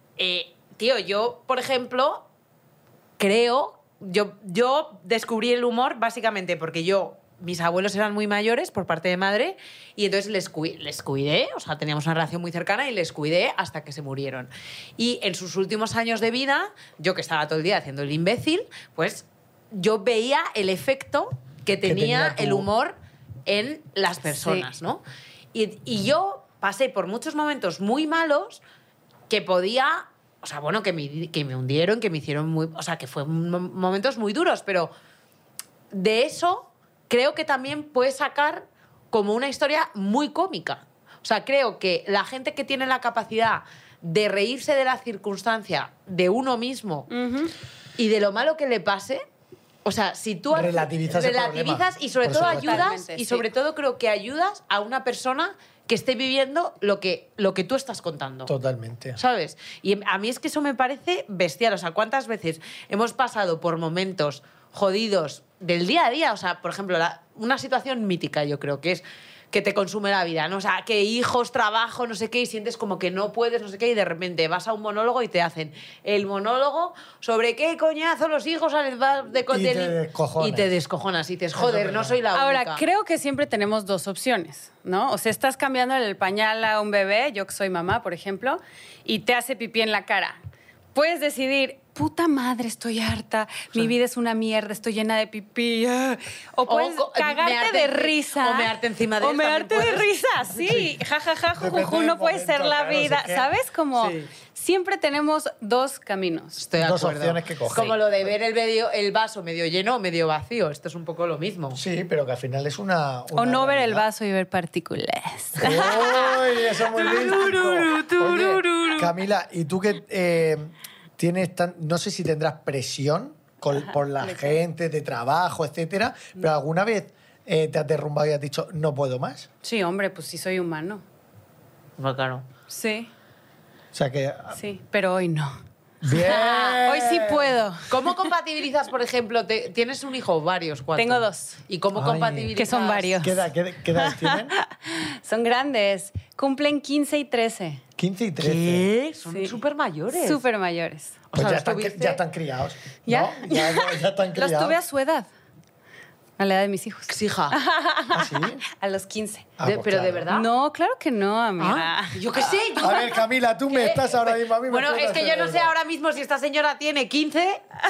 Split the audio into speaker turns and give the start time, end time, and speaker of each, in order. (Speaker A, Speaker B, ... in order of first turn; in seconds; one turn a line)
Speaker A: 0.2-2.2
Speaker A: 3.2-25.0
Speaker B: 21.8-22.7
Speaker C: 24.3-24.7
Speaker A: 25.5-28.6
Speaker A: 29.3-34.9
Speaker A: 35.9-47.1
Speaker C: 47.1-47.5
Speaker A: 48.0-49.2
Speaker A: 49.8-58.5
Speaker B: 50.5-52.9
Speaker C: 52.4-53.5
Speaker B: 58.5-59.2
Speaker A: 59.1-82.8
Speaker B: 79.5-80.7
Speaker B: 81.5-82.2
Speaker C: 82.3-90.4
Speaker C: 90.9-106.6
Speaker A: 96.7-100.1
Speaker B: 100.6-100.9
Speaker B: 101.5-103.5
Speaker A: 104.0-104.3
Speaker A: 106.5-111.8
Speaker B: 106.8-108.0
Speaker B: 111.7-114.0
Speaker C: 113.3-115.8
Speaker B: 115.5-129.5
Speaker A: 115.6-119.1
Speaker C: 124.2-124.6
Speaker C: 129.6-131.0
Speaker A: 132.0-132.4
Speaker C: 132.7-133.1
Speaker B: 133.9-134.6
Speaker C: 134.5-135.5
Speaker B: 136.0-137.6
Speaker A: 136.1-136.8
Speaker C: 136.8-137.9
Speaker A: 137.9-143.2
Speaker C: 140.9-141.6
Speaker B: 141.9-142.6
Speaker C: 142.6-143.4
Speaker B: 143.2-144.5
Speaker C: 144.0-147.8
Speaker B: 148.0-148.9
Speaker A: 148.4-150.4
Speaker C: 149.3-149.5
Speaker C: 150.1-151.2
Speaker A: 151.3-152.2
Speaker B: 151.3-154.8
Speaker C: 153.1-155.3
Speaker C: 156.4-159.5
Speaker A: 157.1-157.6
Speaker B: 158.1-158.6
Speaker B: 159.6-160.3
Speaker A: 159.6-160.5
Speaker C: 160.3-162.2
Speaker A: 161.6-167.6
Speaker B: 162.8-165.7